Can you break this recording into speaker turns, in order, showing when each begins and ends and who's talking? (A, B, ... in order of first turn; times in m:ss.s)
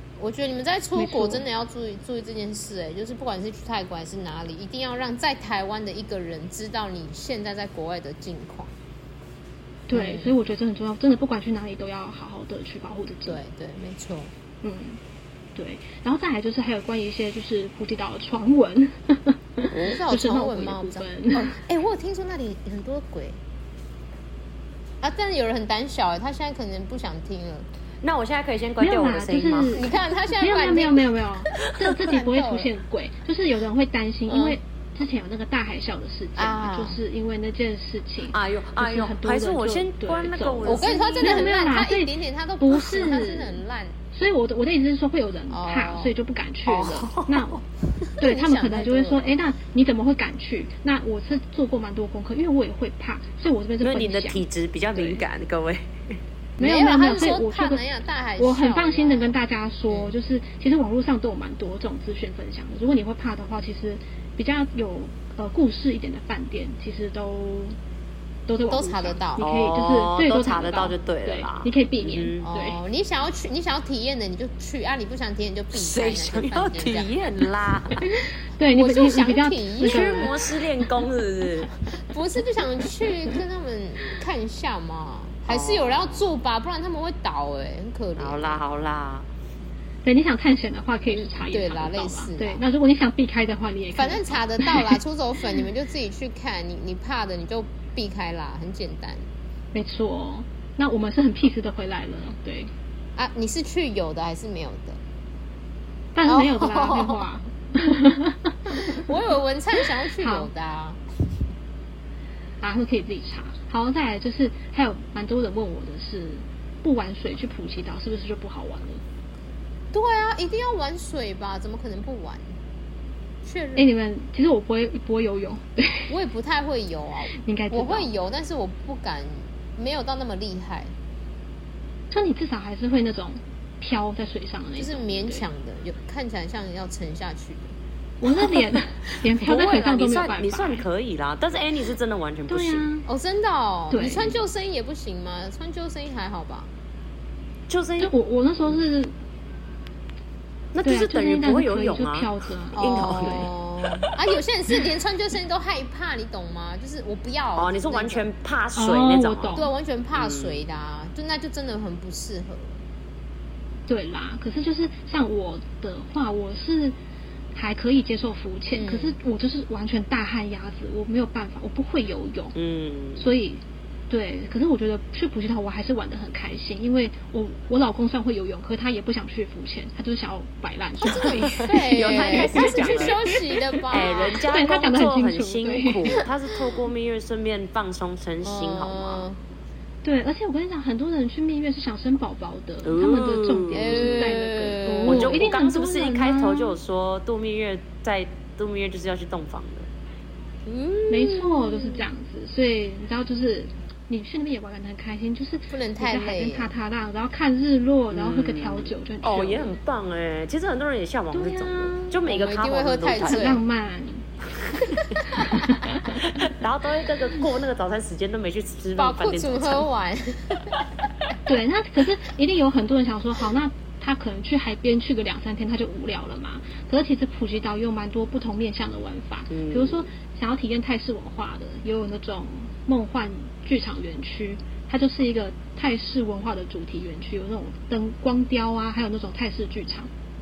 0:00.2-0:08.7 A
0:00.9-0:01.4 B
0:09.9-0:13.4 B
0:09.9-0:10.3 A
0:13.2-0:14.3 A
0:14.6-0:15.0 B
0:15.6-0:21.6 B
0:19.7-0:23.4 A
0:25.0-0:27.6 A
0:28.0-0:29.8 C
0:28.8-0:47.6 B
0:29.7-0:31.1 A
0:31.8-0:32.7 A
0:34.3-0:34.6 A
0:36.4-0:37.0 A
0:38.3-0:41.5 C
0:40.6-0:44.0 A
0:45.5-0:46.1 A
0:46.7-0:47.3 C
0:46.7-0:47.2 A
0:48.2-0:49.2 A
0:48.2-0:54.4 B
0:53.8-0:56.2 C
0:54.9-0:55.2 B
0:56.6-0:59.3 A
0:56.6-0:57.8 B
0:58.4-1:07.8 B
1:08.5-1:12.8 B
1:08.7-1:09.4 A
1:09.4-1:12.4 C
1:12.4-1:17.1 A
1:15.7-1:18.1 C
1:18.1-1:20.4 B
1:18.7-1:20.4 A
1:19.8-1:21.7 C
1:22.0-1:28.6 A
1:25.5-1:26.3 C
1:28.2-1:29.3 C
1:30.0-1:35.0 B
1:31.1-1:32.6 A
1:34.0-1:39.3 A
1:39.7-1:42.7 B
1:43.2-1:45.0 A
1:46.1-1:49.0 B
1:46.2-1:47.2 A
1:48.9-1:51.0 A
1:49.8-1:50.5 B
1:52.6-1:59.0 B
1:59.9-2:02.5 A
2:03.4-2:03.9 A
2:03.8-2:06.1 B
2:06.1-2:10.9 A
2:07.3-2:08.1 B
2:12.1-2:15.4 B
2:14.8-2:17.7 A
2:18.2-2:20.8 B
2:19.4-2:22.9 C
2:22.5-2:23.0 B
2:23.0-2:26.7 A
2:23.9-2:24.4 B
2:27.7-2:28.1 C
2:28.0-2:29.1 B
2:30.7-2:34.1 C
2:30.8-2:33.5 B
2:32.8-2:38.3 A
2:37.6-2:39.6 C
2:38.8-2:39.7 B
2:39.5-2:42.8 A
2:40.1-2:40.6 C
2:43.9-2:46.9 B
2:47.5-2:52.6 B
2:48.7-2:49.2 A
2:52.6-2:53.3 C
2:53.2-3:03.4 B
3:01.0-3:03.2 C
3:01.6-3:04.4 A
3:03.9-3:06.2 B
3:03.9-3:09.2 C
3:08.4-3:09.4 A
3:10.0-3:16.8 B
3:12.8-3:14.4 C
3:13.7-3:15.5 A
3:15.1-3:19.9 C
3:20.7-3:22.0 A
3:21.1-3:29.8 B
3:25.7-3:26.7 A
3:28.1-3:33.5 C
3:31.3-3:32.2 B
3:32.2-3:33.6 A
3:33.0-3:34.3 B
3:35.0-3:35.2 A
3:35.3-3:36.2 B
3:36.0-3:39.9 C
3:39.0-3:40.8 A
3:41.4-4:00.1 B
3:49.5-3:50.1 C